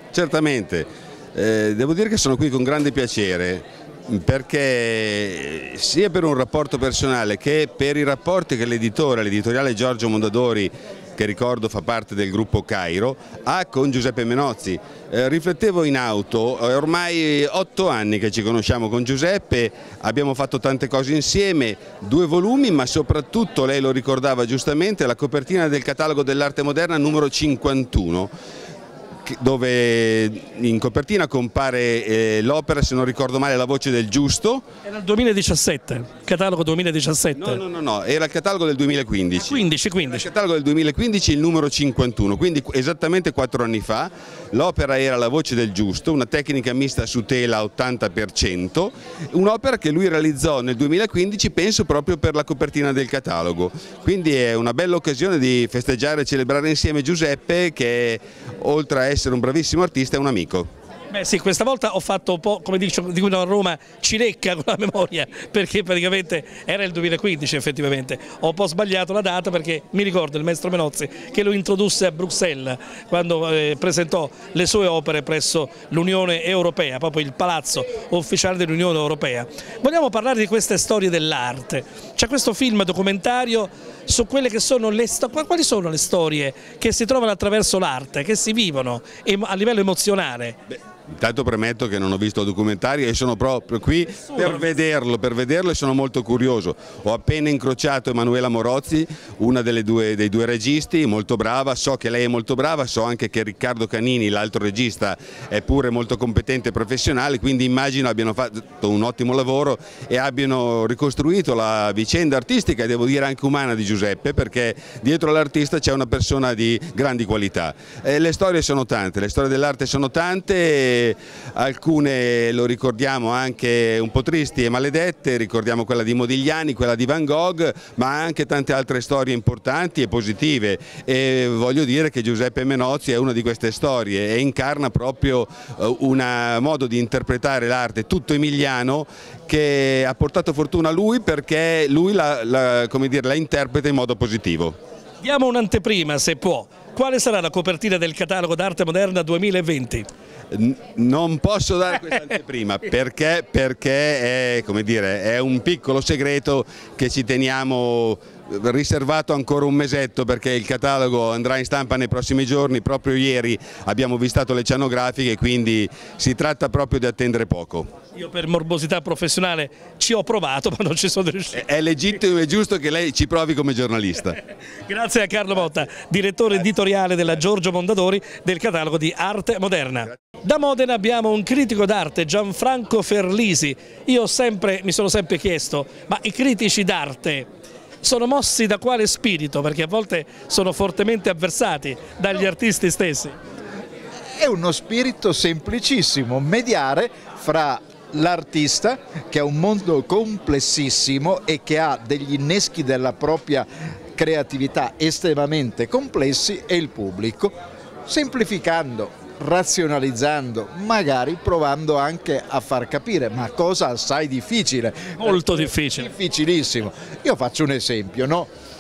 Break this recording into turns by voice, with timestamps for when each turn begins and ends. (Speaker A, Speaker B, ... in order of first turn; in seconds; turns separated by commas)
Speaker A: 0.1-28.3, Speaker A: 29.3-34.6, Speaker B: 34.9-37.6, Speaker A: 37.4-60.7, Speaker B: 39.4-40.3, Speaker B: 61.1-90.6, Speaker A: 91.2-144.8, Speaker B: 94.3-94.6, Speaker B: 145.2-150.1, Speaker A: 150.5-167.9, Speaker B: 168.2-171.6, Speaker A: 171.6-174.4, Speaker B: 174.9-187.5, Speaker B: 188.0-193.4, Speaker C: 194.4-218.5, Speaker B: 215.2-216.1